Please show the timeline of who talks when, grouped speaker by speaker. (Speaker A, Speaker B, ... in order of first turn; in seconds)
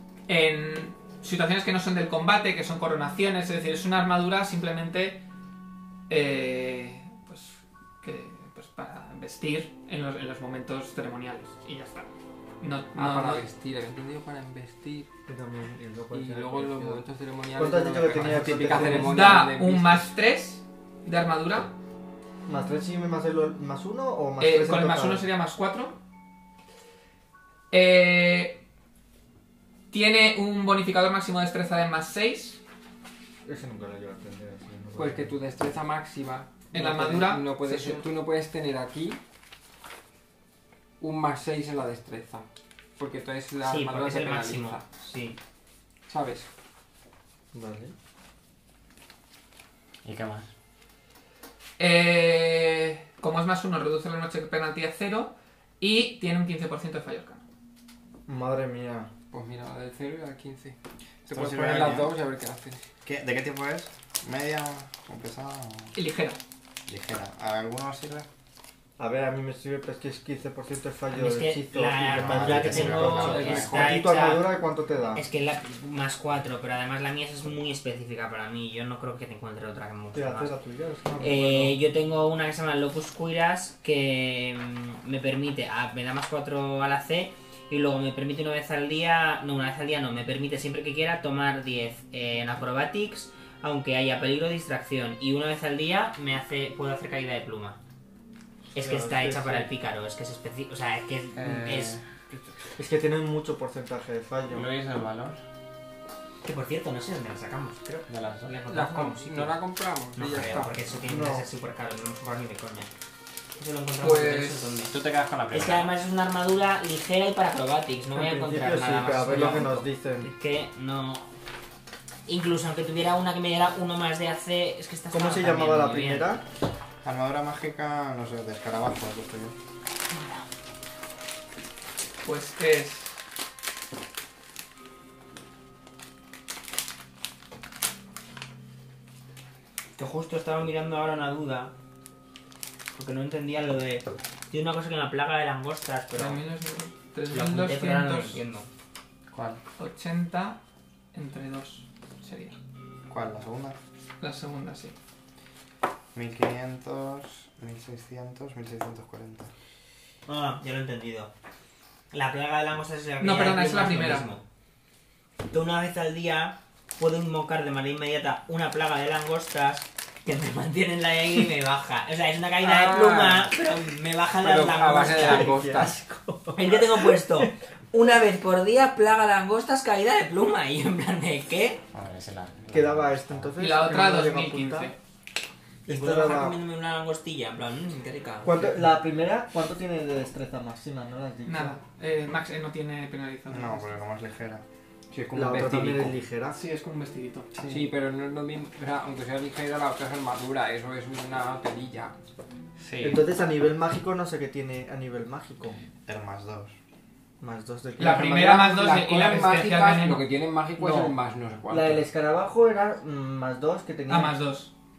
Speaker A: 0.3-5.2, 6.1-13.4, 18.6-21.7, 24.4-26.0, 27.7-28.6, 29.9-32.6, 36.7-38.0, 51.8-57.4, 65.9-66.4, 132.2-133.2, 146.1-148.4, 149.8-150.6, 151.1-152.6, 154.2-154.9, 163.2-164.3, 183.6-185.0, 191.4-194.0, 196.5-197.5, 208.0-210.2, 214.1-214.7
Speaker B: 12.9-15.1, 16.1-20.1, 35.0-39.2, 41.0-44.8, 46.1-46.5, 59.3-62.8, 73.0-74.0, 108.7-110.9, 114.0-114.7, 172.6-173.6, 174.4-175.9, 195.1-196.2, 197.7-202.1, 208.1-212.1
Speaker C: 15.3-19.4, 22.5-25.2, 33.4-35.4, 47.5-47.9, 58.3-59.1, 69.0-75.2, 80.1-81.8, 98.8-99.7, 102.8-104.7, 111.0-111.5, 118.1-120.3, 125.1-126.4, 174.9-177.5, 182.7-184.9, 185.8-186.6, 188.4-191.8, 195.3-196.6, 203.0-205.8, 207.4-208.6, 210.8-211.2, 211.7-214.4
Speaker D: 43.6-45.4, 71.1-74.5, 75.1-80.5, 81.2-97.8, 98.7-102.0, 106.4-109.6, 110.1-112.9, 113.6-114.9, 115.5-121.3, 122.3-126.3, 130.1-130.4, 140.0-141.7, 142.9-146.4, 147.3-148.7, 160.3-161.3, 162.1-164.4, 165.5-175.6, 176.5-181.8, 185.9-188.9
Speaker E: 50.0-50.5, 61.3-62.1, 63.0-65.9, 66.9-68.3, 72.1-73.9, 101.3-102.3, 104.5-105.4, 108.1-108.5, 110.4-110.6, 114.9-115.9, 127.0-129.6, 149.3-149.6, 153.1-153.8, 156.1-159.5, 181.9-183.5, 193.5-194.6, 202.8-203.2, 206.1-206.7